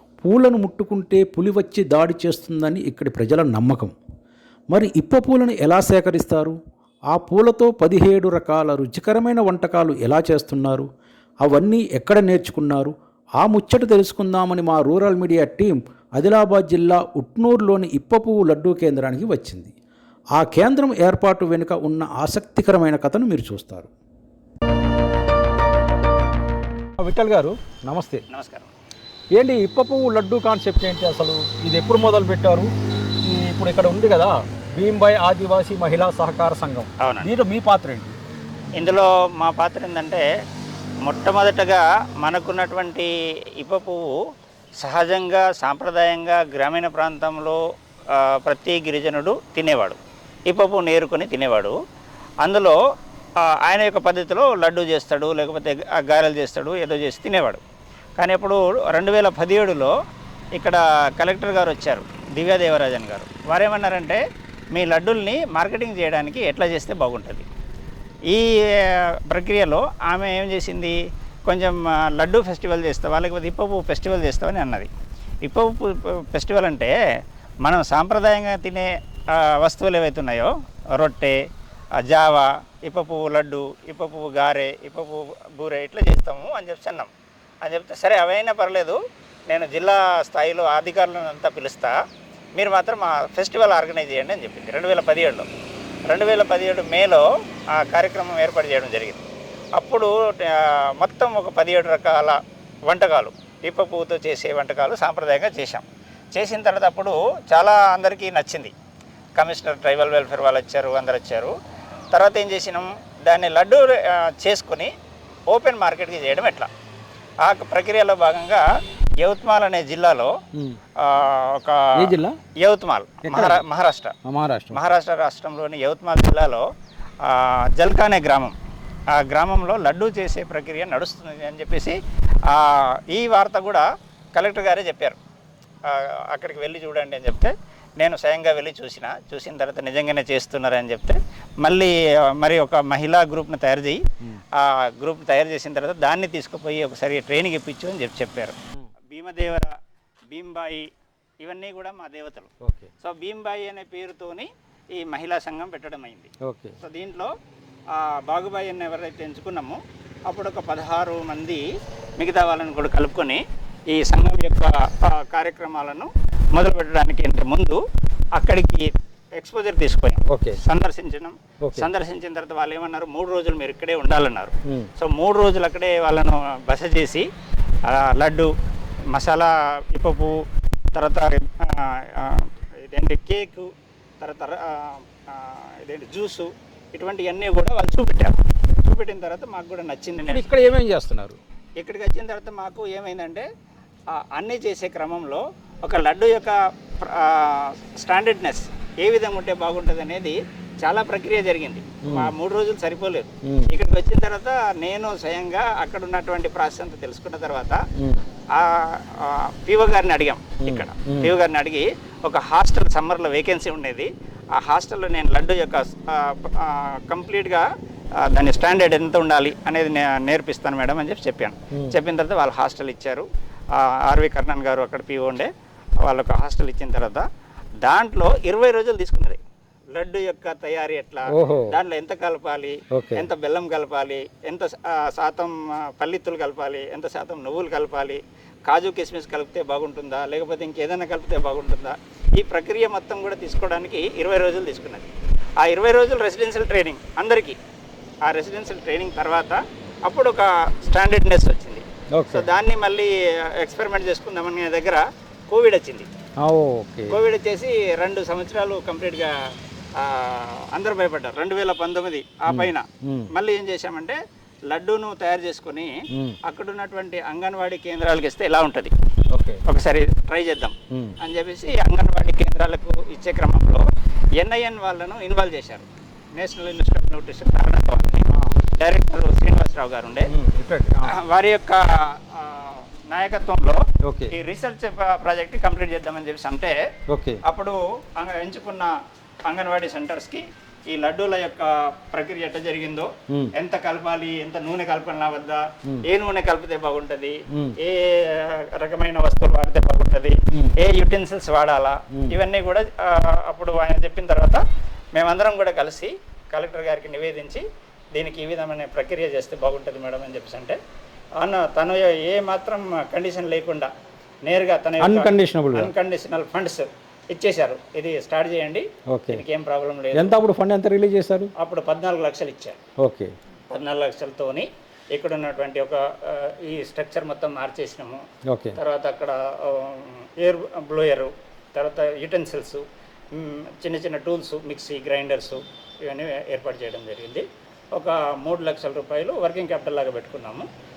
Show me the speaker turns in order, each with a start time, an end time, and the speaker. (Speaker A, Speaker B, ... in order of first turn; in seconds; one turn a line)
Speaker A: 0.2-4.0
Speaker A: 4.7-6.6
Speaker A: 7.1-10.9
Speaker A: 11.4-19.7
Speaker A: 20.4-23.9
Speaker B: 27.0-28.2
Speaker C: 28.3-28.7
Speaker B: 29.4-32.7
Speaker B: 33.2-38.1
Speaker C: 37.0-37.3
Speaker C: 38.8-40.3
Speaker C: 41.0-44.2
Speaker C: 44.8-47.6
Speaker C: 48.1-51.8
Speaker C: 52.4-52.8
Speaker C: 53.4-57.6
Speaker C: 58.2-59.9
Speaker C: 60.6-64.2
Speaker C: 64.7-67.5
Speaker C: 68.3-74.9
Speaker C: 75.5-76.9
Speaker C: 77.7-81.4
Speaker C: 82.0-87.1
Speaker C: 87.6-91.9
Speaker C: 92.6-95.5
Speaker C: 96.1-99.3
Speaker C: 99.8-108.7
Speaker C: 109.4-111.6
Speaker C: 112.1-114.9
Speaker C: 115.5-116.7
Speaker C: 117.4-118.6
Speaker C: 119.2-120.3
Speaker C: 121.0-124.1
Speaker A: 124.3-124.8
Speaker C: 124.7-126.7
Speaker C: 127.2-128.6
Speaker C: 129.1-135.2
Speaker C: 135.9-144.0
Speaker C: 144.6-148.6
Speaker C: 149.1-149.7
Speaker C: 150.3-150.9
Speaker C: 151.4-157.3
Speaker A: 156.5-156.7
Speaker C: 157.9-161.6
Speaker C: 162.2-167.8
Speaker C: 168.4-177.3
Speaker B: 170.3-170.6
Speaker C: 177.9-178.5
Speaker C: 179.1-180.4
Speaker C: 180.9-190.6
Speaker A: 190.3-191.4
Speaker B: 190.9-191.4
Speaker C: 191.8-193.5
Speaker C: 194.1-207.8
Speaker C: 208.5-217.7
Speaker B: 210.7-211.2
Speaker C: 218.2-225.5
Speaker C: 226.1-227.3
Speaker C: 227.8-229.4
Speaker C: 229.9-245.1
Speaker C: 245.6-247.6
Speaker C: 248.3-256.1
Speaker B: 256.5-256.9
Speaker A: 256.8-257.2
Speaker C: 257.1-259.4
Speaker C: 260.0-264.2
Speaker C: 264.7-265.9
Speaker C: 266.4-268.9
Speaker C: 269.7-273.9
Speaker C: 274.4-280.3
Speaker B: 280.4-281.0
Speaker C: 281.0-286.8
Speaker C: 287.4-288.9
Speaker C: 289.5-304.6
Speaker C: 305.2-310.8
Speaker C: 311.4-313.9
Speaker C: 314.5-320.4
Speaker B: 315.0-315.8
Speaker B: 320.1-321.5
Speaker C: 321.6-322.8
Speaker C: 323.7-328.2
Speaker C: 328.8-340.7